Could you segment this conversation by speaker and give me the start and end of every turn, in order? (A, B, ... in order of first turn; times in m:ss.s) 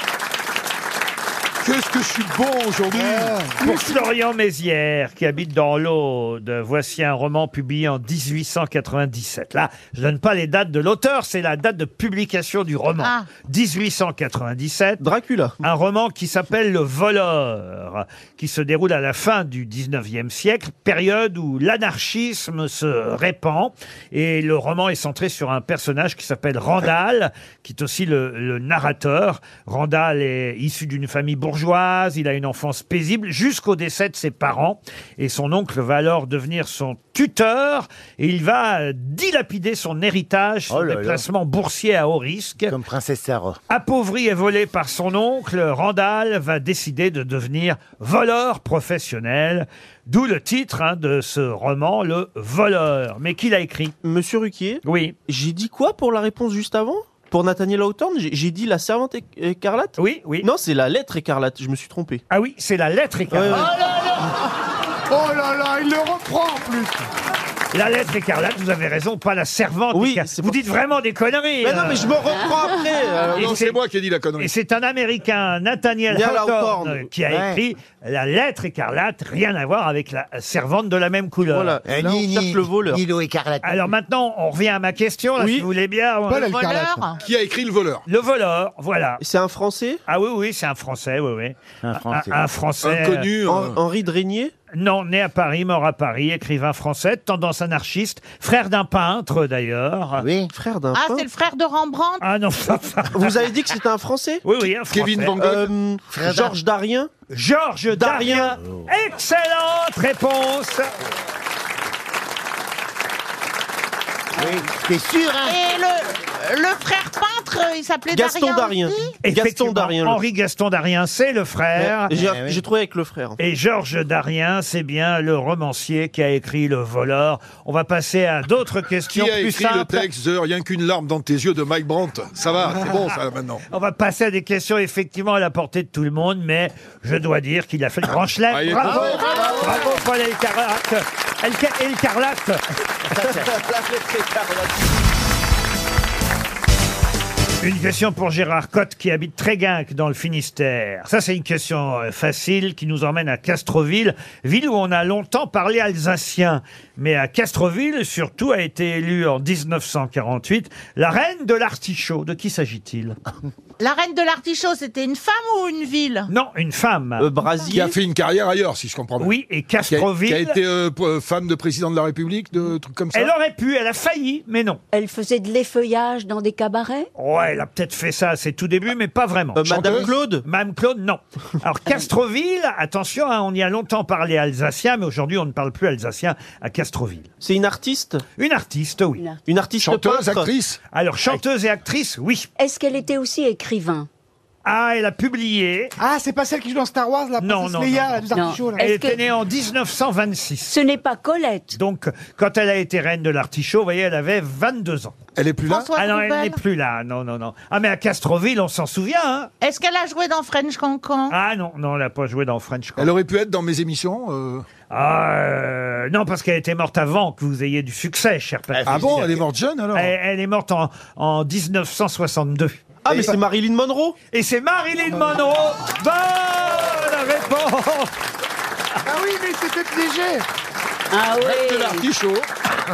0:01.6-0:03.4 A
0:02.9-0:04.0 B
0:03.6-0:15.0 C
0:13.0-0:13.3 D
0:15.0-0:15.6 E
0:15.6-0:42.7 C
0:40.7-0:41.2 F
0:42.7-0:43.6 F
0:43.7-0:54.0 C
0:54.0-1:02.2 E
0:54.8-0:55.2 C
1:00.0-1:00.5 C
1:02.3-1:03.7 C
1:03.3-1:03.7 E
1:03.5-1:04.3 F
1:05.1-1:07.0 B
1:07.7-1:12.2 C
1:09.9-1:10.6 E
1:11.6-1:13.8 E
1:13.3-1:14.5 A
1:14.4-1:21.8 C
1:16.1-1:17.1 E
1:17.3-1:17.6 F
1:21.5-1:23.0 E
1:21.8-1:23.9 F
1:23.6-1:26.5 C
1:25.4-1:25.7 E
1:26.3-1:27.1 B
1:26.4-1:27.2 D
1:27.2-1:28.0 A
1:28.1-1:29.2 C
1:29.2-1:30.0 E
1:30.1-1:33.3 C
1:31.8-1:32.4 F
1:32.8-1:33.8 A
1:33.4-1:34.5 E
1:34.7-1:40.2 C
1:40.2-1:40.5 F
1:40.5-1:41.3 E
1:40.9-1:42.2 D
1:42.2-1:43.4 C
1:43.1-1:44.4 E
1:44.4-1:45.4 C
1:44.9-1:45.7 A
1:45.4-1:47.1 E
1:46.1-1:46.5 F
1:47.3-1:50.9 C
1:47.9-1:48.6 E
1:54.4-1:55.6 F
1:55.4-1:59.1 D
1:58.1-2:00.2 E
1:59.2-2:02.1 C
2:01.8-2:03.4 E
2:02.1-2:02.6 F
2:03.4-2:10.0 C
2:09.1-2:13.6 A
2:13.7-2:22.6 C
2:18.5-2:19.3 A
2:18.8-2:19.7 F
2:19.4-2:19.8 B
2:23.1-2:23.5 F
2:23.2-2:24.9 E
2:27.6-2:43.2 C
2:43.8-2:46.3 D
2:46.3-2:47.3 C
2:47.2-2:48.0 E
2:47.7-2:49.3 A
2:49.2-2:50.6 C
2:49.9-2:53.3 A
2:53.1-2:54.8 C
2:54.9-2:57.1 G
2:57.2-3:07.3 C
2:59.5-3:00.4 E
2:59.7-3:00.1 A
3:07.4-3:08.2 E
3:08.4-3:09.2 C
3:09.4-3:10.5 E
3:09.8-3:10.8 A
3:10.9-3:12.5 C
3:12.6-3:14.1 G
3:14.6-3:15.9 C
3:16.0-3:18.8 B
3:17.4-3:18.2 C
3:18.3-3:19.2 G
3:18.8-3:20.8 C
3:20.7-3:21.8 G
3:21.7-3:25.2 C
3:25.4-3:25.9 A
3:25.7-3:26.6 D
3:26.0-3:29.5 C
3:29.6-3:31.3 D
3:31.3-3:33.1 C
3:33.0-3:34.6 A
3:34.9-3:39.4 C
3:38.7-3:39.4 F
3:38.8-3:40.1 A
3:39.9-3:42.8 C
3:43.0-3:44.2 E
3:44.3-3:48.1 C
3:49.0-3:50.4 B
3:51.1-3:52.0 G
3:51.4-3:52.5 A